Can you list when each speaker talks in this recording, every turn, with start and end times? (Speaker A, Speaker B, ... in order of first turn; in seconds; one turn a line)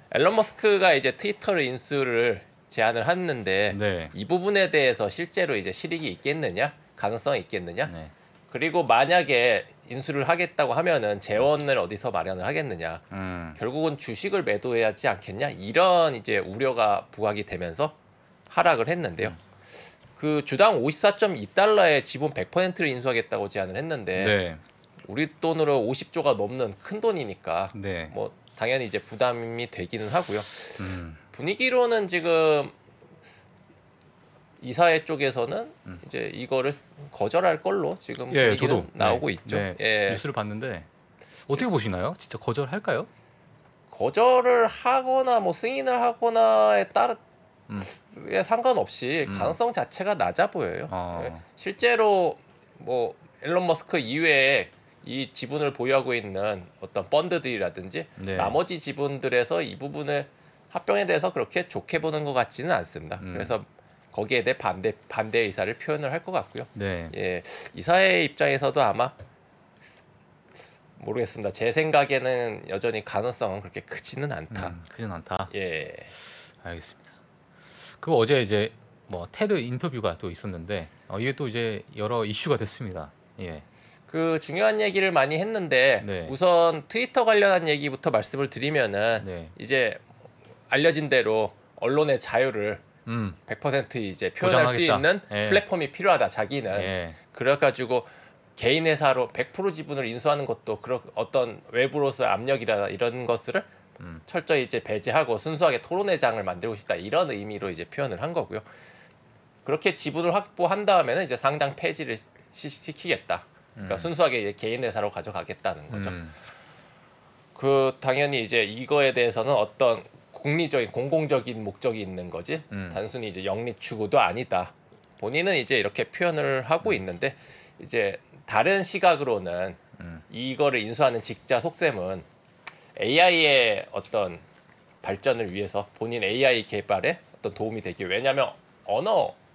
Speaker A: 0.1-7.9
Speaker B: 3.7-4.1
Speaker B: 7.9-8.1
Speaker A: 8.5-13.1
Speaker B: 13.1-13.6
Speaker A: 13.6-17.9
Speaker A: 18.5-19.4
Speaker A: 20.2-24.4
Speaker B: 24.2-24.6
Speaker A: 25.1-32.7
Speaker B: 27.7-28.1
Speaker B: 30.8-31.2
Speaker A: 34.6-40.2
Speaker B: 38.3-40.9
Speaker B: 41.5-43.1
Speaker A: 41.5-41.7
Speaker A: 43.9-47.2
Speaker A: 47.8-69.2
Speaker B: 49.3-49.6
Speaker B: 50.9-51.4
Speaker B: 58.2-58.6
Speaker B: 63.2-63.6
Speaker B: 66.8-67.1
Speaker A: 71.0-74.8
Speaker B: 74.5-75.5
Speaker A: 75.5-76.1
Speaker B: 76.2-77.1
Speaker B: 77.8-83.7
Speaker A: 84.1-90.0
Speaker B: 86.0-86.4
Speaker B: 89.2-89.5
Speaker A: 90.7-92.8
Speaker B: 93.1-93.4
Speaker A: 93.5-103.7
Speaker B: 94.4-95.6
Speaker B: 96.7-97.2
Speaker A: 104.3-108.6
Speaker A: 109.7-116.2
Speaker B: 113.8-114.1
Speaker B: 115.9-116.3
Speaker A: 117.6-132.3
Speaker B: 122.7-123.0
Speaker B: 130.0-130.2
Speaker A: 133.0-134.4
Speaker A: 135.0-139.4